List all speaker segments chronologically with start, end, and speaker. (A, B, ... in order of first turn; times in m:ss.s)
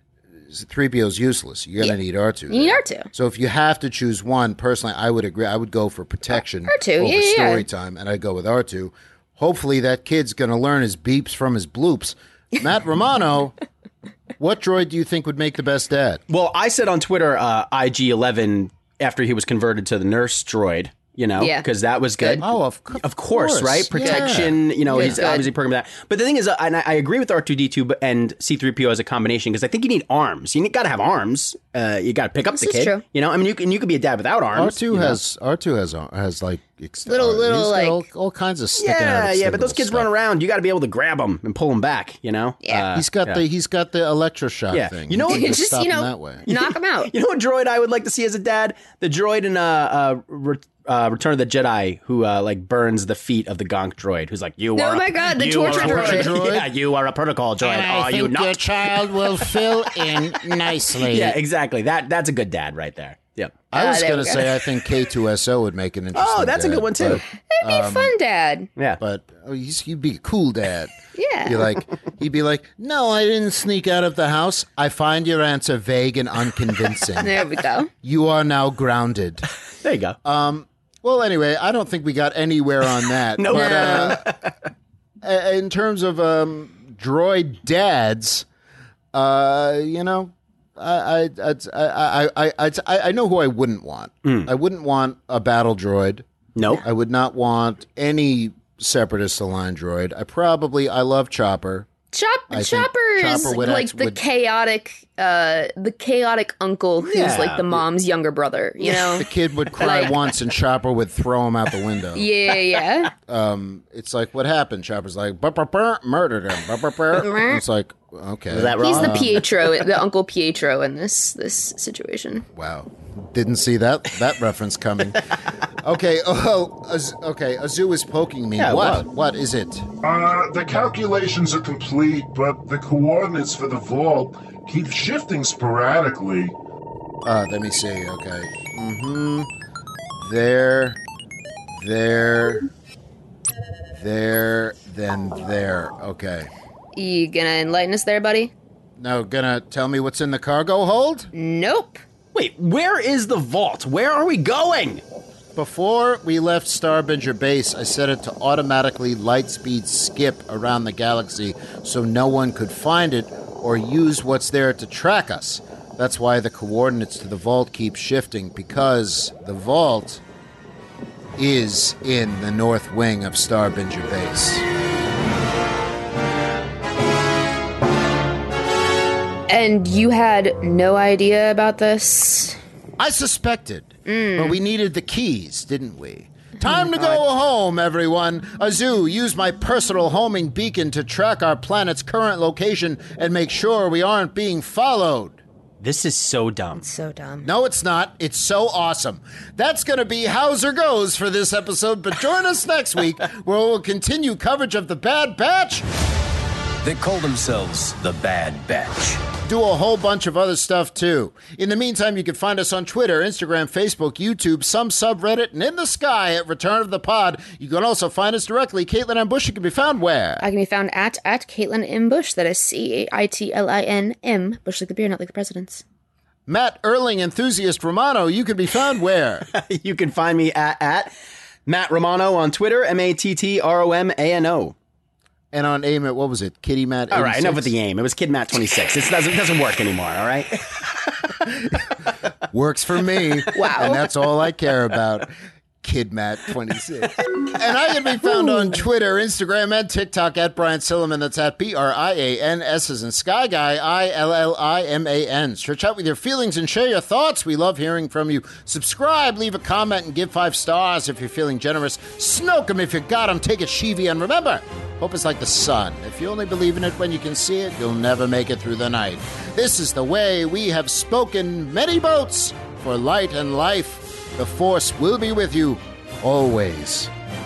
0:00.5-0:13.6 A
0:02.5-0:03.1 B
0:06.7-0:07.6 B
0:14.4-0:16.2 A
0:16.3-0:22.5 C
0:21.4-0:21.6 B
0:22.2-0:25.4 A
0:23.0-0:35.2 C
0:24.0-0:25.5 B
0:32.6-0:33.0 B
0:34.5-0:40.1 A
0:37.1-0:38.0 B
0:38.8-0:43.4 C
0:42.9-0:46.4 A
0:44.7-0:45.6 C
0:45.3-0:47.1 B
0:46.5-1:00.4 C
0:54.8-0:56.3 B
0:55.6-0:56.7 A
0:57.6-1:01.4 A
1:01.0-1:03.6 C
1:03.7-1:08.1 A
1:03.8-1:04.5 B
1:06.2-1:07.2 C
1:07.5-1:08.7 B
1:09.0-1:10.9 A
1:11.2-1:11.6 B
1:11.5-1:17.4 A
1:17.2-1:17.9 B
1:18.0-1:19.5 A
1:19.8-1:20.2 C
1:20.2-1:24.3 A
1:23.4-1:24.6 C
1:23.5-1:24.1 B
1:25.2-1:28.5 A
1:29.1-1:36.3 A
1:34.2-1:34.5 C
1:36.6-1:36.8 C
1:36.8-1:41.9 A
1:42.1-1:49.3 B
1:42.5-1:44.2 A
1:47.0-1:47.8 C
1:48.8-1:52.3 A
1:49.8-1:50.1 B
1:52.2-1:53.1 B
1:53.3-1:59.4 A
1:57.2-1:57.6 B
1:58.5-1:59.7 C
1:58.8-2:02.4 B
2:02.6-2:05.2 A
2:05.8-2:09.9 A
2:08.6-2:09.1 C
2:10.0-2:16.6 D
2:17.2-2:19.5 A
2:20.2-2:21.0 A
2:21.7-2:22.6 A
2:23.9-2:26.5 A
2:27.0-2:28.5 B
2:29.0-2:31.3 A
2:31.3-2:32.0 B
2:32.3-2:35.0 C
2:35.6-2:50.2 A
2:51.4-2:54.6 A
2:59.5-3:02.6 B
3:03.0-3:15.4 A
3:04.1-3:04.6 B
3:06.6-3:07.2 B
3:15.8-3:16.8 C
3:16.8-3:17.5 B
3:17.4-3:25.9 A
3:26.8-3:29.2 E
3:29.5-3:40.4 A
3:40.4-3:45.8 B
3:46.5-3:49.5 A
3:49.5-3:51.1 C
3:51.7-3:54.8 C
3:55.5-3:57.7 A
3:57.1-4:01.8 C
4:02.5-4:37.1 A
4:03.6-4:04.0 B